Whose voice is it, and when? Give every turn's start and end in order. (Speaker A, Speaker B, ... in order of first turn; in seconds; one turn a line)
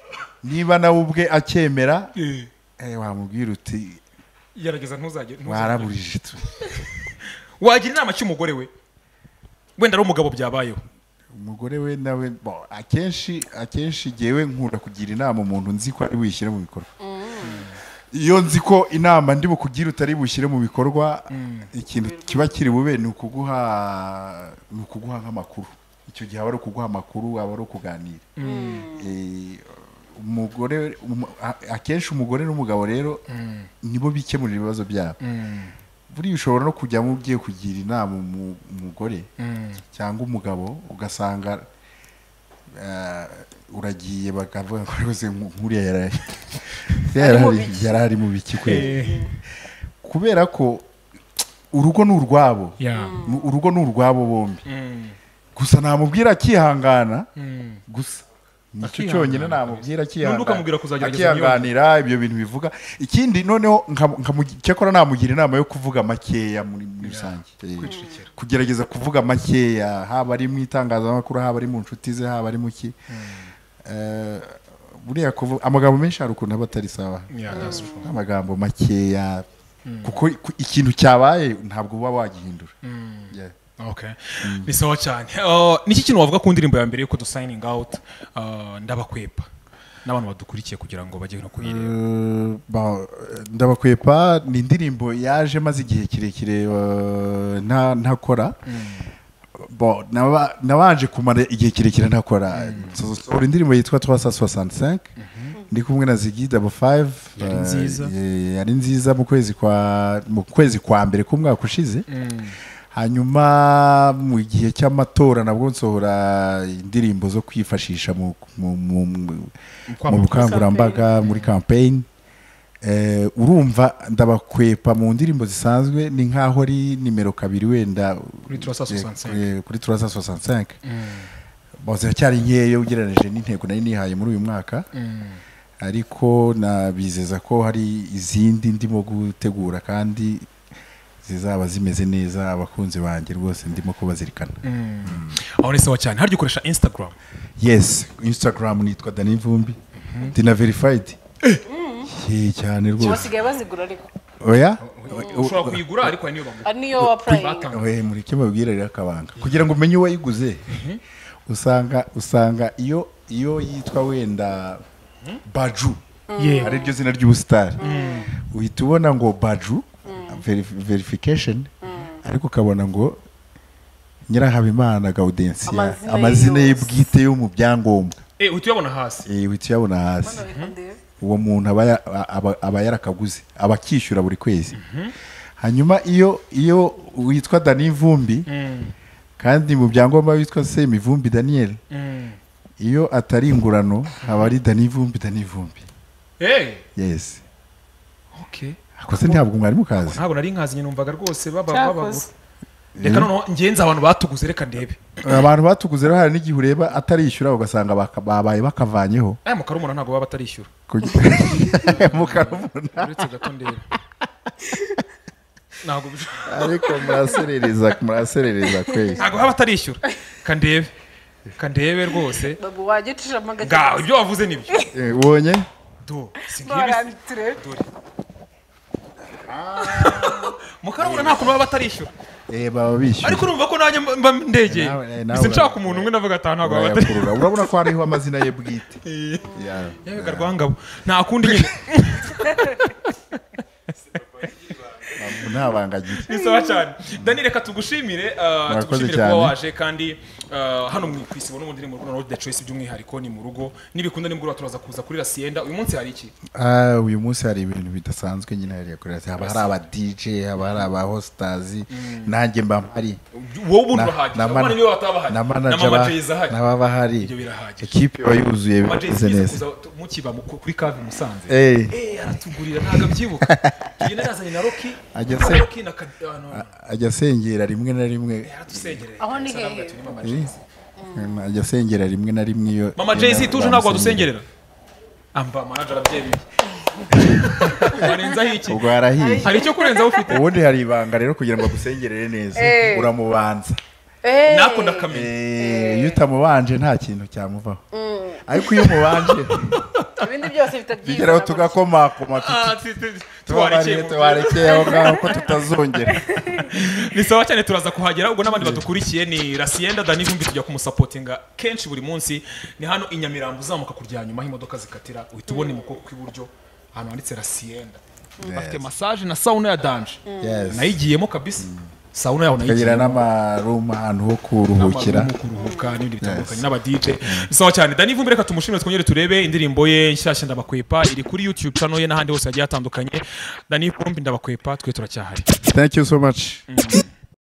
Speaker A: 0.4-2.1
Speaker B: 2.2-2.5
Speaker A: 2.8-4.0
Speaker B: 4.5-5.9
Speaker A: 5.5-6.6
Speaker B: 7.6-8.7
Speaker B: 9.8-10.8
Speaker A: 11.3-16.9
Speaker C: 17.0-17.7
Speaker B: 17.4-17.8
Speaker A: 18.1-28.3
Speaker B: 21.3-21.7
Speaker C: 22.0-22.6
Speaker B: 28.4-28.9
Speaker C: 28.4-29.1
Speaker A: 28.9-33.2
Speaker B: 33.3-33.7
Speaker A: 33.8-35.2
Speaker B: 35.2-35.8
Speaker A: 36.1-39.3
Speaker B: 39.4-39.8
Speaker A: 39.9-41.7
Speaker A: 42.8-48.9
Speaker C: 47.2-48.0
Speaker B: 48.6-49.3
Speaker C: 48.6-49.3
Speaker A: 50.0-50.9
Speaker A: 51.7-54.6
Speaker B: 52.8-53.2
Speaker C: 52.9-53.4
Speaker B: 54.6-55.2
Speaker A: 55.5-57.3
Speaker B: 57.4-57.8
Speaker A: 57.9-73.0
Speaker B: 58.8-61.7
Speaker B: 67.0-68.3
Speaker C: 67.9-68.1
Speaker B: 73.1-73.5
Speaker A: 73.8-79.5
Speaker B: 77.3-78.1
Speaker C: 77.5-78.0
Speaker B: 79.8-80.2
Speaker A: 80.0-82.7
Speaker B: 82.8-89.5
Speaker A: 84.4-84.7
Speaker B: 90.0-91.9
Speaker A: 91.6-98.6
Speaker B: 98.7-99.1
Speaker A: 99.6-105.1
Speaker B: 102.5-103.0
Speaker B: 105.2-105.5
Speaker A: 105.7-112.0
Speaker B: 107.4-108.1
Speaker B: 112.1-112.6
Speaker A: 112.9-119.5
Speaker B: 119.9-121.5
Speaker A: 120.1-122.1
Speaker C: 120.4-121.1
Speaker A: 122.8-130.8
Speaker B: 128.5-129.5
Speaker B: 130.8-131.3
Speaker A: 131.8-134.9
Speaker B: 134.9-135.4
Speaker A: 135.8-140.5
Speaker A: 141.2-145.4
Speaker B: 144.6-147.2
Speaker A: 147.6-151.2
Speaker B: 150.1-150.4
Speaker C: 151.7-152.1
Speaker A: 152.1-153.3
Speaker C: 153.0-154.1
Speaker A: 154.4-155.8
Speaker B: 154.8-157.9
Speaker C: 156.6-157.7
Speaker A: 157.7-160.7
Speaker B: 160.7-161.0
Speaker A: 161.5-164.8
Speaker A: 165.4-166.0
Speaker C: 166.3-166.9
Speaker B: 166.4-166.8
Speaker A: 166.6-167.8
Speaker C: 167.8-168.3
Speaker B: 167.8-168.3
Speaker A: 168.4-173.2
Speaker C: 170.1-170.4
Speaker C: 171.8-172.2
Speaker A: 174.3-178.2
Speaker C: 175.7-177.0
Speaker B: 178.4-179.3
Speaker A: 179.3-180.5
Speaker C: 180.2-181.0
Speaker B: 180.4-180.7
Speaker A: 181.2-184.8
Speaker B: 184.7-185.2
Speaker A: 185.6-188.5
Speaker B: 188.5-188.9
Speaker A: 189.4-191.8
Speaker B: 191.9-192.4
Speaker A: 192.8-195.9
Speaker B: 196.4-196.8
Speaker A: 196.9-197.4
Speaker B: 198.3-199.4
Speaker A: 199.0-200.2
Speaker B: 200.0-202.3
Speaker C: 201.7-202.2
Speaker A: 202.9-203.3
Speaker B: 203.0-205.4
Speaker A: 205.2-209.4
Speaker B: 209.4-210.7
Speaker A: 210.9-213.2
Speaker B: 211.6-213.9
Speaker B: 215.8-216.8
Speaker A: 216.5-219.2
Speaker C: 218.9-219.3
Speaker B: 219.2-220.9
Speaker B: 221.6-222.6
Speaker C: 222.6-224.1
Speaker B: 223.6-224.8
Speaker A: 224.9-225.7
Speaker B: 226.0-227.9
Speaker C: 226.6-227.6
Speaker A: 229.3-231.5
Speaker B: 229.9-232.1
Speaker A: 232.5-233.5
Speaker B: 233.2-237.7
Speaker A: 234.7-236.1
Speaker A: 236.6-239.0
Speaker B: 239.0-239.5
Speaker C: 239.4-239.9
Speaker A: 239.5-240.5
Speaker B: 240.0-243.4
Speaker B: 244.4-245.4
Speaker A: 245.1-246.3
Speaker B: 246.2-256.3
Speaker C: 246.3-246.8
Speaker A: 248.7-249.6
Speaker A: 256.5-263.2
Speaker B: 259.4-259.7
Speaker B: 261.9-262.3
Speaker B: 263.3-266.6
Speaker A: 263.9-269.6
Speaker B: 267.2-267.9
Speaker B: 268.8-276.7
Speaker A: 271.5-271.9
Speaker A: 273.4-274.2
Speaker A: 275.1-275.7
Speaker A: 276.5-279.0
Speaker B: 278.4-280.6
Speaker C: 279.2-280.0
Speaker A: 280.2-280.5
Speaker C: 281.0-281.4
Speaker A: 281.1-284.3
Speaker B: 283.0-284.4
Speaker B: 285.3-286.4
Speaker B: 287.1-290.5
Speaker A: 287.1-288.1
Speaker A: 288.7-289.5
Speaker C: 289.2-290.4
Speaker A: 290.3-293.8
Speaker C: 292.6-293.1
Speaker C: 294.2-296.2
Speaker B: 294.4-295.3
Speaker A: 295.1-297.8
Speaker C: 297.9-299.1
Speaker A: 298.4-299.8
Speaker C: 300.1-301.8
Speaker A: 301.0-302.8
Speaker B: 302.4-305.5
Speaker A: 303.5-306.2
Speaker C: 304.6-305.5
Speaker C: 306.1-307.0
Speaker B: 306.6-323.2
Speaker A: 308.6-308.9
Speaker C: 315.5-315.8
Speaker A: 318.4-318.9
Speaker C: 320.3-320.7
Speaker A: 320.4-321.0
Speaker A: 321.6-321.9
Speaker A: 322.6-325.3
Speaker B: 324.8-335.5
Speaker C: 325.6-326.0
Speaker A: 326.2-326.6
Speaker A: 327.2-327.5
Speaker A: 335.6-336.6
Speaker B: 336.7-337.1